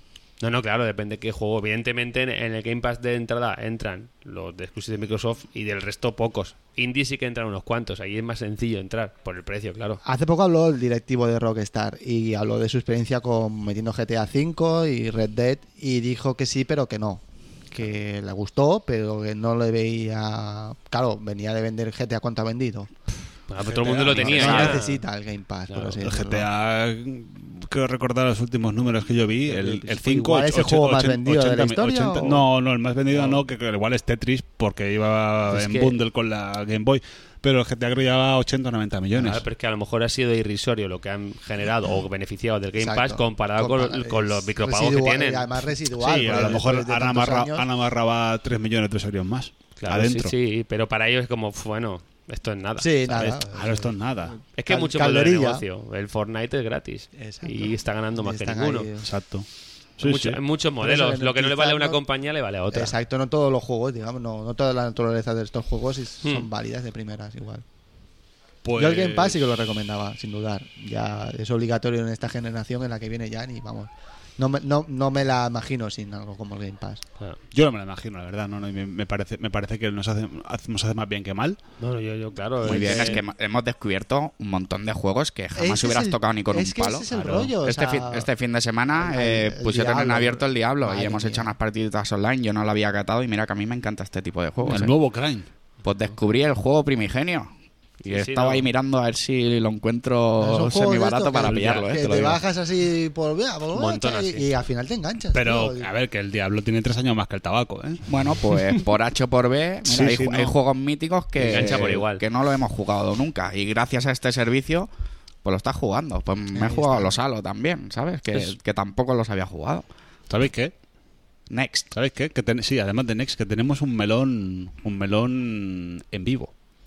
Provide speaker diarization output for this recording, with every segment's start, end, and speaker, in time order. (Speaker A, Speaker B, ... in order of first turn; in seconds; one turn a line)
Speaker A: 0.4-10.0
Speaker B: 10.0-22.9
Speaker A: 23.5-25.0
Speaker C: 23.6-24.8
Speaker B: 23.8-26.5
Speaker A: 25.7-26.0
Speaker C: 26.0-39.4
Speaker B: 29.4-32.5
Speaker B: 35.5-35.9
Speaker A: 39.1-45.5
Speaker B: 42.8-47.7
Speaker C: 46.0-50.3
Speaker A: 49.8-53.3
Speaker B: 52.8-55.6
Speaker C: 53.1-54.4
Speaker A: 54.6-58.9
Speaker B: 57.1-59.1
Speaker C: 59.0-59.5
Speaker C: 60.0-60.4
Speaker A: 60.0-63.0
Speaker B: 60.8-62.0
Speaker B: 62.7-67.6
Speaker C: 68.6-69.4
Speaker B: 68.8-77.0
Speaker C: 77.5-81.6
Speaker A: 81.8-83.2
Speaker D: 82.6-95.0
Speaker B: 85.5-88.3
Speaker C: 87.1-87.5
Speaker B: 89.0-91.5
Speaker C: 94.6-95.5
Speaker D: 95.8-97.5
Speaker A: 98.0-98.7
Speaker D: 98.1-102.4
Speaker B: 100.4-105.9
Speaker C: 101.5-102.3
Speaker A: 103.7-104.5
Speaker C: 105.3-108.6
Speaker D: 108.1-114.9
Speaker C: 109.9-110.6
Speaker A: 111.4-112.2
Speaker C: 111.5-112.0
Speaker D: 115.4-119.9
Speaker B: 116.5-117.2
Speaker C: 120.3-120.7
Speaker D: 121.5-121.9
Speaker C: 121.9-126.5